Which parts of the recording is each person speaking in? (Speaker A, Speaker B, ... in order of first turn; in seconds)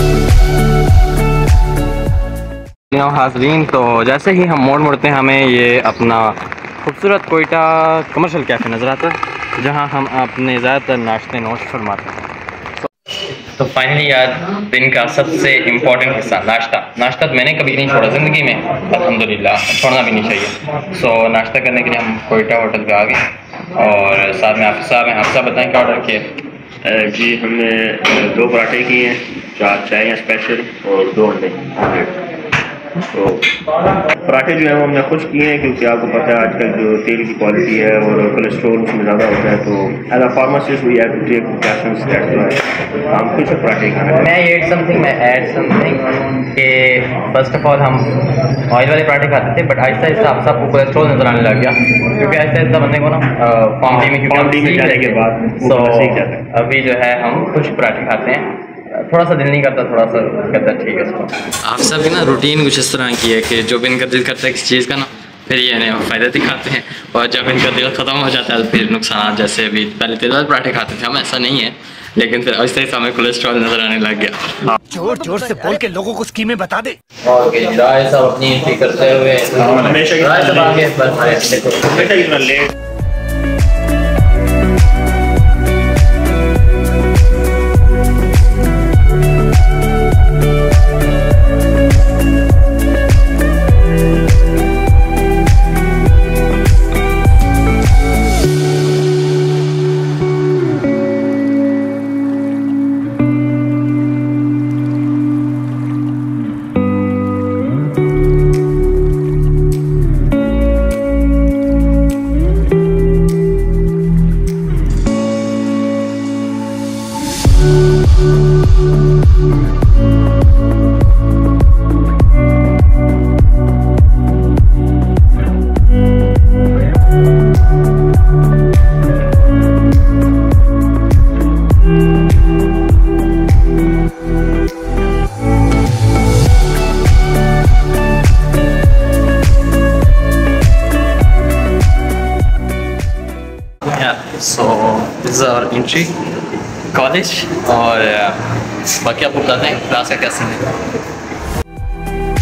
Speaker A: 2.9-12.3, 13.5-23.2, 23.7-26.3, 44.1-48.1, 48.7-74.5, 77.2-82.2, 143.8-146.2, 146.9-150.6
Speaker B: 26.8-32.1, 33.1-33.5, 34.2-44.2, 53.9-56.4, 79.6-80.7, 82.0-82.7
Speaker C: 74.9-77.0